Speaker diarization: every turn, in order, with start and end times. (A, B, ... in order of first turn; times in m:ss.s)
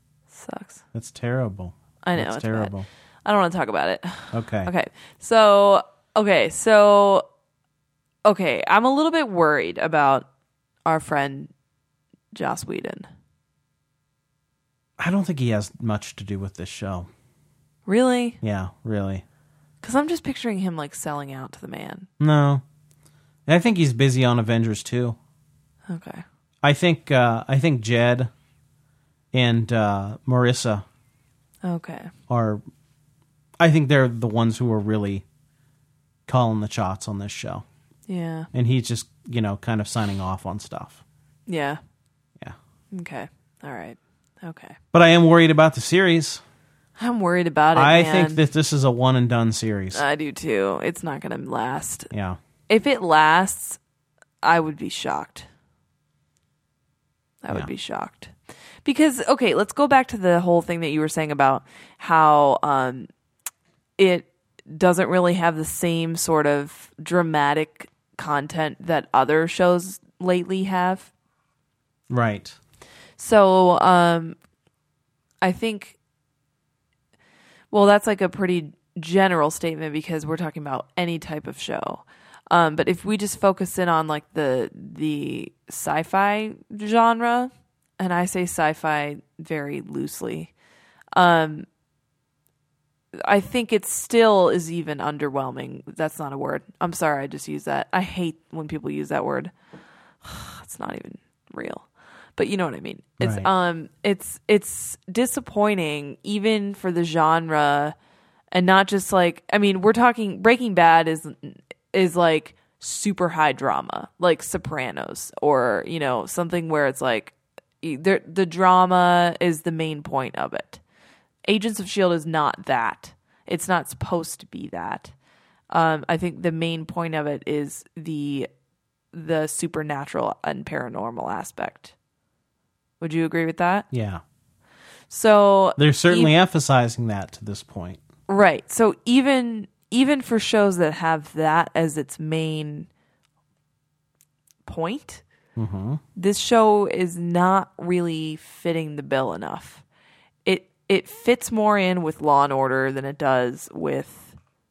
0:00.3-0:00.8 A
0:00.9-0:02.8 B
0:02.0-0:02.7 A
0:03.2-0:07.2 A
0:04.3-0:04.7 B
0:08.2-0:10.3 A
0:10.8-0:11.5 A
0:12.3-0:13.1 A
0:15.0-0:17.1 B
0:17.8-0:18.4 A
0:18.4-0:19.2 B
0:19.8-0:22.1 A
0:22.2-0:22.6 B
0:23.5-0:25.2 B
0:25.9-0:26.2 A
0:26.6-0:28.3 B
0:29.3-0:30.8 B
0:31.6-0:32.1 A
0:32.3-0:32.6 B
0:33.6-0:35.2 B
0:36.3-0:37.6 B
0:38.1-0:38.5 A
0:38.5-0:41.0 B
0:41.5-0:41.8 A
0:42.9-0:44.8 A
0:44.9-0:46.4 B
0:47.0-0:48.4 A
0:47.7-0:50.0 B
0:49.9-0:52.1 A
0:52.1-0:52.4 B
0:52.7-0:53.8 A
0:54.4-0:55.5 A
0:57.4-0:58.3 A
0:58.8-1:03.1 A
1:04.0-1:11.1 A
1:12.1-1:12.6 B
1:13.2-1:14.4 A
1:15.4-1:16.0 A
1:17.7-1:30.5 A
1:31.1-1:31.7 A
1:33.2-1:39.5 A
1:40.2-1:47.9 A
1:43.2-1:43.5 B
1:48.5-2:00.8 A
2:01.5-2:05.1 A
2:05.7-2:08.5 A
2:09.1-2:11.9 A
2:13.0-2:13.9 A
2:13.9-2:14.2 B
2:15.1-2:16.3 A
2:15.8-2:18.0 B
2:18.3-2:22.9 A
2:24.6-2:25.2 A
2:25.6-2:26.0 B
2:26.2-2:29.8 A
2:30.4-2:34.3 A